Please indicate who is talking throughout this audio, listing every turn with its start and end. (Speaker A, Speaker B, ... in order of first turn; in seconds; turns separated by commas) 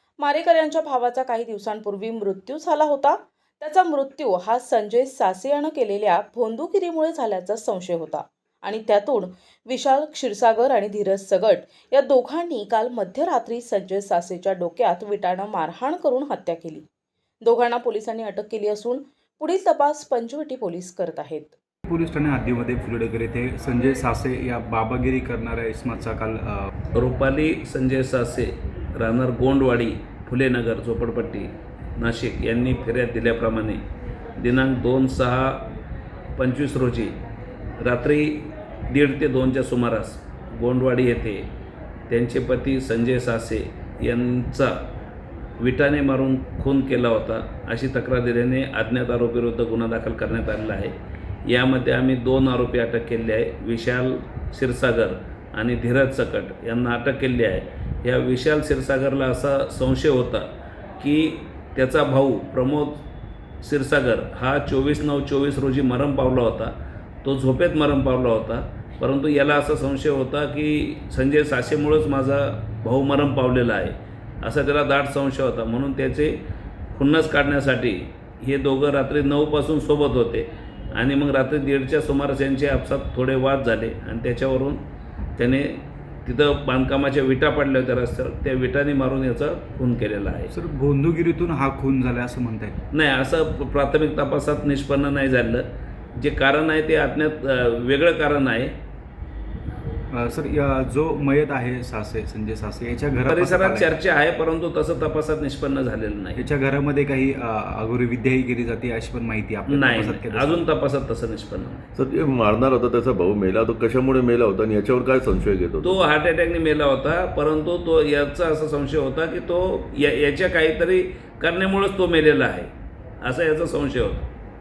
Speaker A: 0.2-16.9, Speaker A: 17.4-21.6, Speaker B: 21.9-26.7, Speaker C: 26.9-33.8, Speaker C: 34.4-35.7, Speaker C: 36.4-37.2, Speaker C: 37.8-41.5, Speaker C: 42.1-44.8, Speaker C: 45.6-51.0, Speaker C: 51.5-63.0, Speaker C: 63.6-76.4, Speaker C: 76.9-84.8, Speaker C: 85.4-90.5, Speaker B: 90.5-92.8, Speaker C: 92.9-98.8, Speaker B: 100.1-103.9, Speaker C: 103.3-106.5, Speaker B: 106.4-110.7, Speaker C: 109.7-111.9, Speaker D: 112.0-116.0, Speaker C: 115.8-122.7, Speaker C: 123.2-124.3